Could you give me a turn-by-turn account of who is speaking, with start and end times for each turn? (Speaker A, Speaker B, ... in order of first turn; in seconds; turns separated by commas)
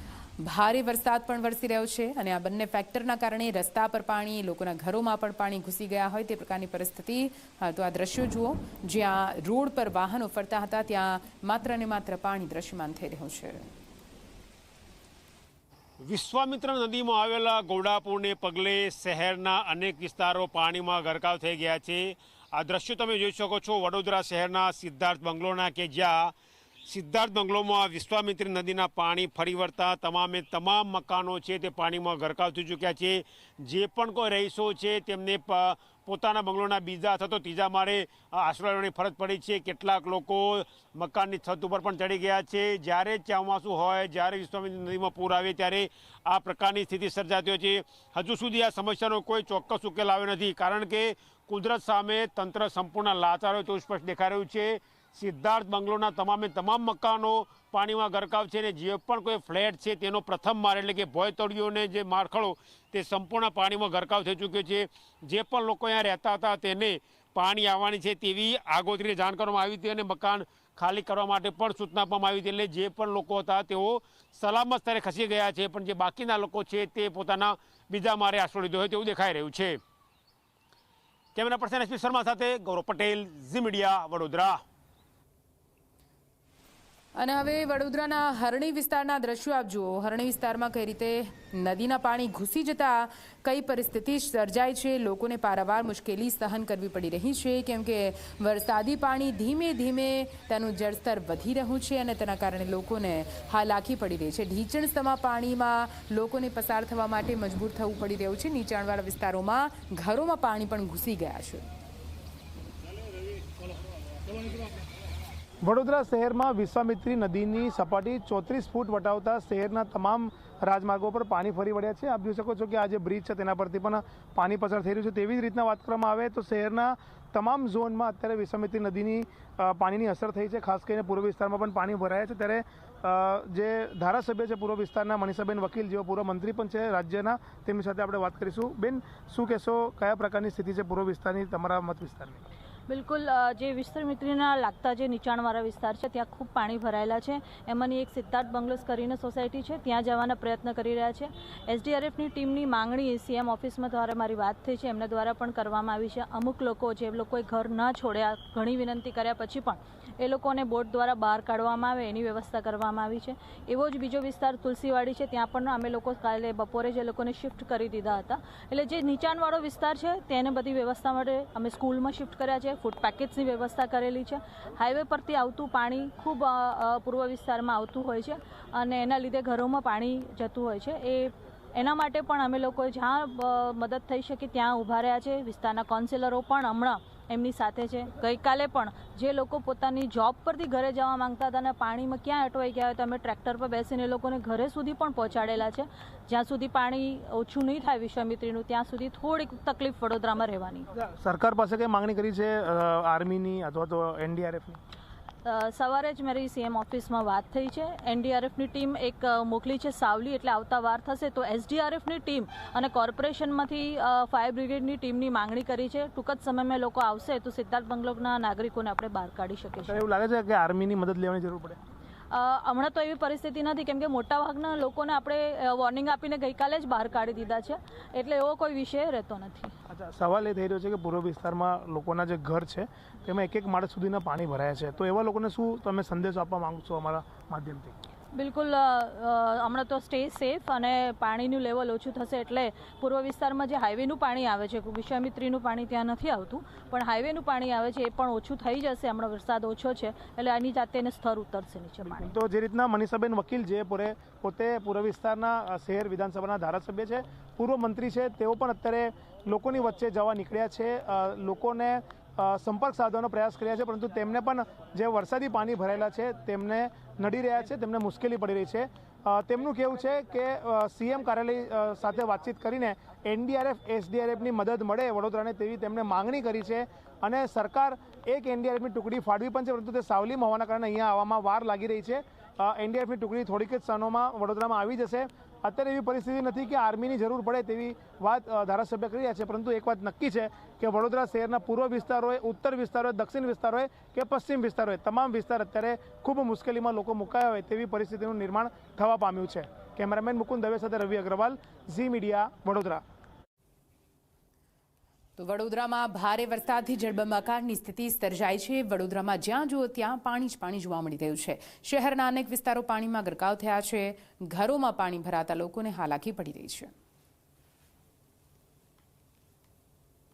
Speaker A: 0.4-13.6, Speaker B: 16.0-26.3, Speaker B: 26.9-79.8, Speaker B: 81.3-84.6, Speaker A: 87.2-111.7, Speaker C: 115.6-142.4, Speaker D: 142.9-200.9, Speaker C: 200.9-204.8, Speaker D: 205.4-220.0, Speaker C: 219.9-221.8, Speaker D: 222.3-229.7, Speaker C: 229.9-237.9, Speaker D: 238.3-252.3, Speaker C: 252.1-303.0, Speaker A: 305.4-316.9